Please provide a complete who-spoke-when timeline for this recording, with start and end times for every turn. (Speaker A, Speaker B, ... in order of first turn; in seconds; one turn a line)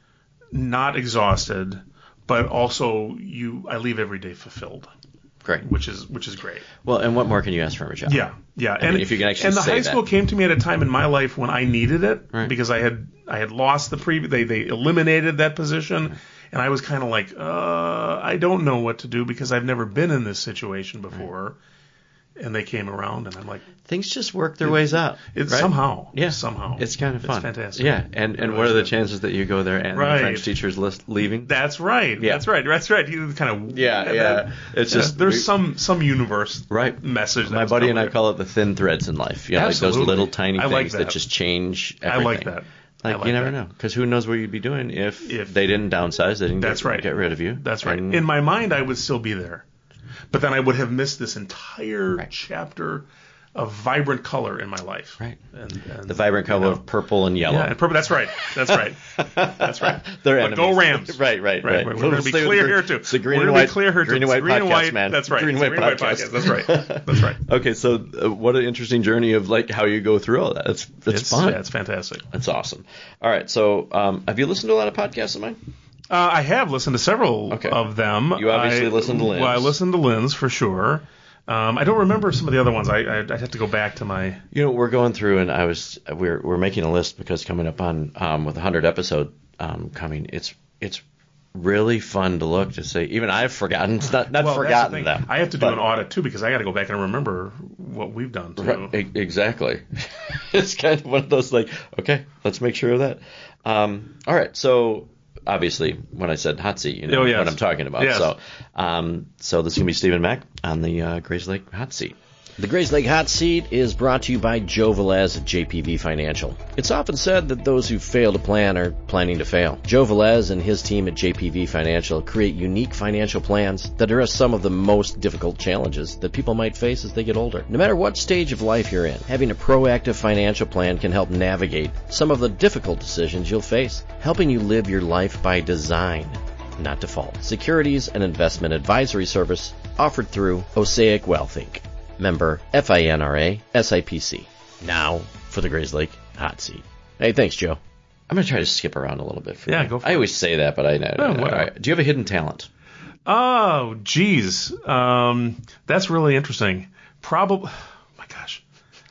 Speaker A: 0.5-4.9
Speaker A: 5.6-6.7
Speaker B: 6.8-8.2
Speaker A: 8.1-21.6
Speaker B: 8.8-10.0
Speaker A: 22.4-23.7
Speaker B: 23.9-31.5
Speaker A: 24.6-28.9
Speaker A: 29.9-30.5
Speaker A: 31.4-38.2
Speaker B: 32.2-32.4
Speaker B: 33.7-35.5
Speaker B: 36.7-42.5
Speaker A: 39.5-41.2
Speaker A: 42.0-43.5
Speaker B: 43.0-48.2
Speaker A: 45.2-45.6
Speaker A: 46.6-49.6
Speaker A: 50.3-56.8
Speaker B: 56.1-57.8
Speaker A: 57.4-67.4
Speaker B: 58.7-71.6
Speaker A: 71.1-72.2
Speaker B: 72.3-75.6
Speaker A: 76.1-84.4
Speaker B: 77.5-77.8
Speaker B: 78.3-79.8
Speaker B: 84.5-91.0
Speaker B: 91.5-95.8
Speaker A: 94.3-99.0
Speaker B: 98.6-152.7
Speaker A: 107.1-108.3
Speaker A: 149.7-150.3
Speaker A: 151.2-151.7
Speaker A: 153.2-158.6